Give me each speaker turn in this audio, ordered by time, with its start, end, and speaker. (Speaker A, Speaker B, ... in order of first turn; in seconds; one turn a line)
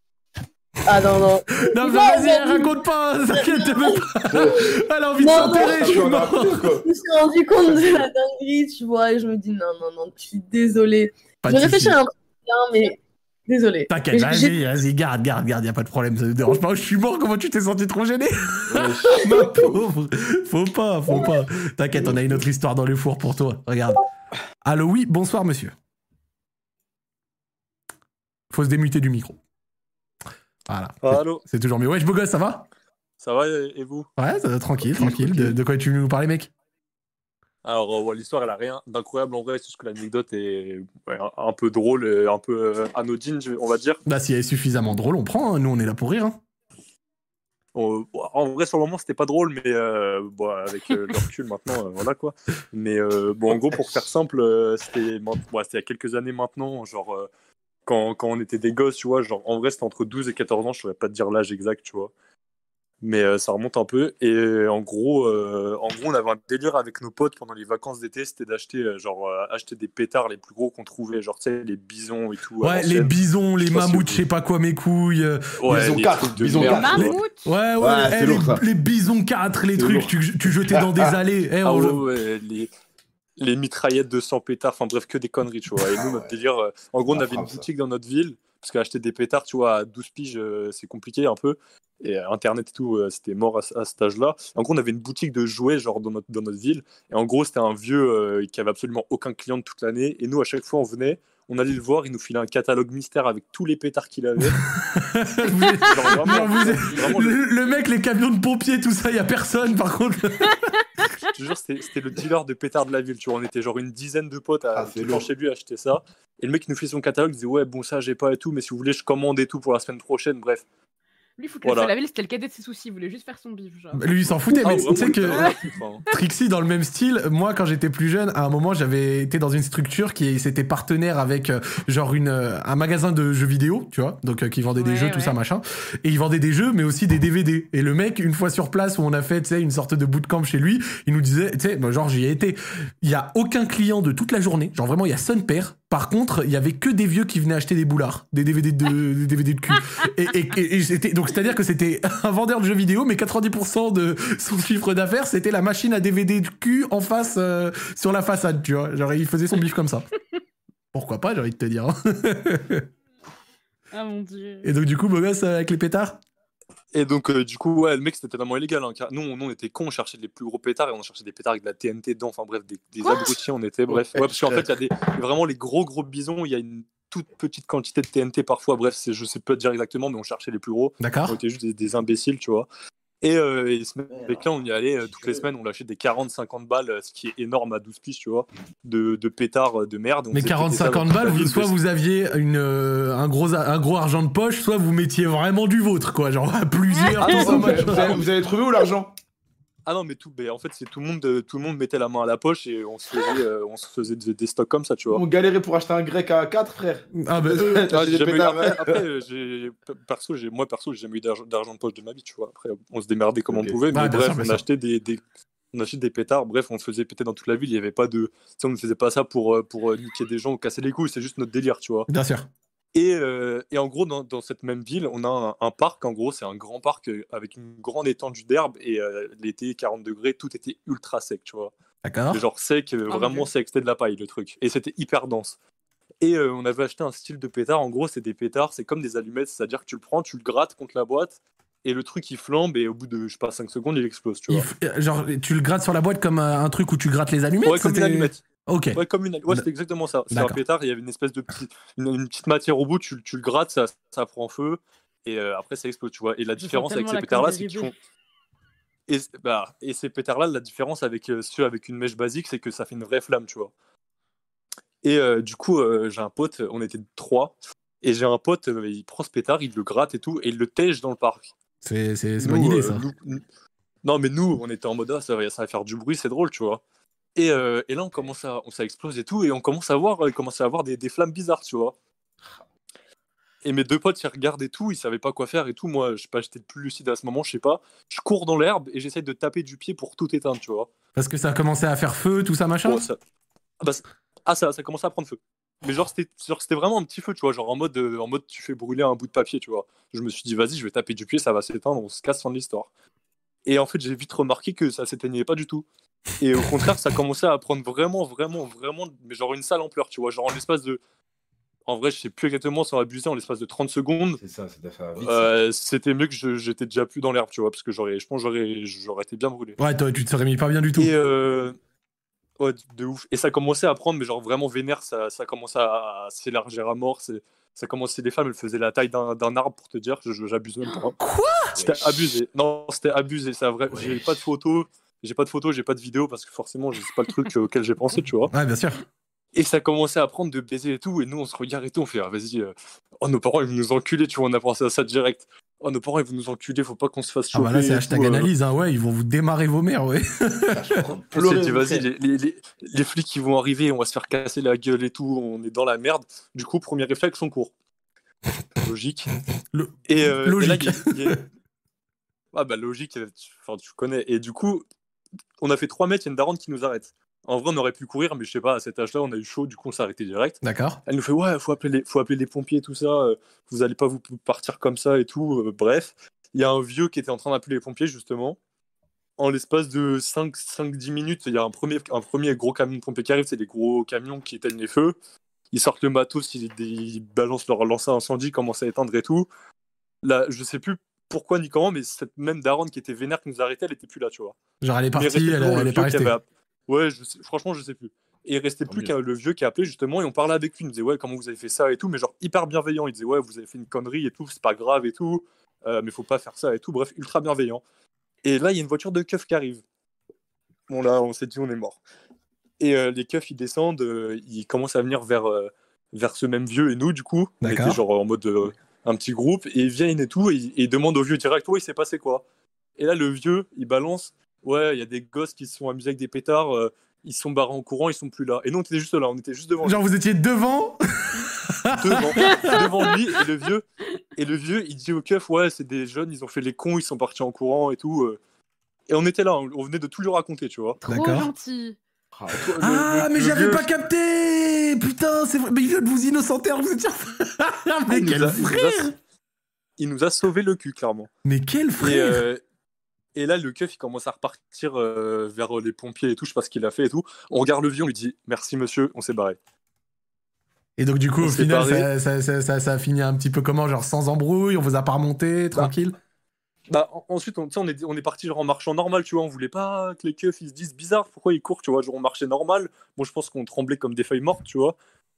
Speaker A: 0.8-2.8
Speaker B: 1.6-6.6
Speaker A: 3.3-4.0
Speaker C: 4.3-4.7
Speaker A: 5.2-6.1
Speaker C: 5.3-6.9
Speaker A: 6.8-14.5
Speaker B: 11.4-12.0
Speaker B: 13.9-24.0
Speaker C: 18.7-19.8
Speaker C: 21.9-22.4
Speaker B: 24.6-25.7
Speaker B: 28.5-29.4
Speaker B: 30.7-32.7
Speaker D: 31.0-31.4
Speaker D: 33.2-34.1
Speaker B: 34.2-36.5
Speaker C: 34.9-35.5
Speaker D: 37.6-44.0
Speaker B: 44.0-46.4
Speaker D: 47.7-57.3
Speaker D: 57.9-62.1
Speaker D: 63.0-74.2
Speaker B: 72.6-75.5
Speaker D: 75.6-77.2
Speaker C: 75.7-77.1
Speaker E: 76.6-77.5
Speaker B: 77.0-82.0
Speaker C: 77.8-78.6
Speaker C: 79.8-80.1
Speaker C: 80.7-81.2
Speaker D: 81.6-82.7
Speaker D: 83.4-104.6
Speaker C: 85.8-86.4
Speaker C: 87.1-87.7
Speaker B: 104.7-110.6
Speaker D: 105.8-107.4
Speaker D: 111.3-120.6
Speaker C: 114.7-115.3
Speaker E: 121.4-124.8
Speaker D: 121.6-121.9
Speaker B: 123.9-125.5
Speaker D: 124.5-126.0
Speaker B: 126.1-160.1
Speaker E: 134.7-135.4
Speaker B: 160.9-162.8
Speaker E: 163.9-164.7
Speaker B: 164.6-166.2
Speaker D: 166.9-182.7
Speaker E: 173.0-173.4
Speaker B: 181.0-181.4
Speaker D: 183.2-191.8
Speaker B: 190.3-198.2
Speaker C: 197.2-199.1
Speaker D: 199.8-205.2
Speaker C: 205.1-209.0
Speaker B: 207.2-207.8
Speaker D: 207.9-215.2
Speaker C: 213.5-213.8
Speaker B: 213.9-214.6
Speaker D: 215.7-222.1
Speaker B: 222.1-222.5
Speaker D: 222.9-231.7
Speaker B: 232.0-232.4
Speaker D: 232.3-235.6
Speaker E: 233.1-233.5
Speaker D: 236.2-244.7
Speaker B: 244.5-249.7
Speaker D: 247.6-248.4
Speaker D: 248.9-257.9
Speaker B: 250.3-250.6
Speaker E: 256.6-257.9
Speaker D: 259.1-263.7
Speaker D: 265.0-271.5
Speaker B: 271.8-273.1
Speaker D: 272.4-273.4
Speaker D: 274.0-276.8
Speaker D: 277.4-281.9
Speaker D: 283.6-290.9
Speaker B: 291.1-293.1
Speaker D: 292.8-293.2
Speaker D: 293.8-302.9
Speaker D: 303.6-305.9
Speaker D: 306.4-311.0
Speaker D: 311.9-314.4
Speaker C: 314.4-315.5
Speaker D: 315.2-319.8
Speaker B: 319.8-321.1
Speaker D: 321.0-321.8
Speaker D: 322.6-331.1
Speaker B: 331.2-331.8
Speaker C: 331.8-332.2
Speaker D: 331.8-338.5
Speaker C: 333.9-334.4
Speaker B: 338.5-339.0
Speaker D: 339.5-348.5
Speaker B: 347.5-350.8
Speaker C: 350.7-352.1
Speaker D: 351.3-357.7
Speaker D: 358.8-359.3
Speaker B: 359.7-361.4
Speaker D: 360.1-361.4
Speaker D: 362.5-364.8
Speaker D: 365.6-378.6
Speaker B: 370.6-371.0
Speaker D: 379.4-385.2
Speaker D: 385.7-389.5
Speaker D: 390.2-394.6
Speaker B: 394.8-396.3
Speaker D: 395.1-407.8
Speaker C: 398.9-399.1
Speaker D: 408.4-409.8
Speaker D: 410.9-412.0
Speaker D: 412.8-422.4
Speaker B: 417.6-418.0
Speaker D: 423.0-430.0
Speaker B: 429.8-432.7
Speaker D: 431.9-433.8
Speaker E: 432.5-433.0
Speaker D: 434.4-438.4
Speaker D: 439.1-441.0
Speaker E: 441.0-442.0
Speaker B: 441.0-441.5
Speaker C: 442.3-443.9
Speaker B: 442.8-449.1
Speaker D: 448.1-449.1
Speaker D: 450.0-451.3
Speaker B: 451.4-452.4
Speaker D: 452.0-452.6
Speaker D: 453.3-459.6
Speaker B: 461.0-466.1
Speaker D: 461.4-462.1
Speaker D: 466.9-474.9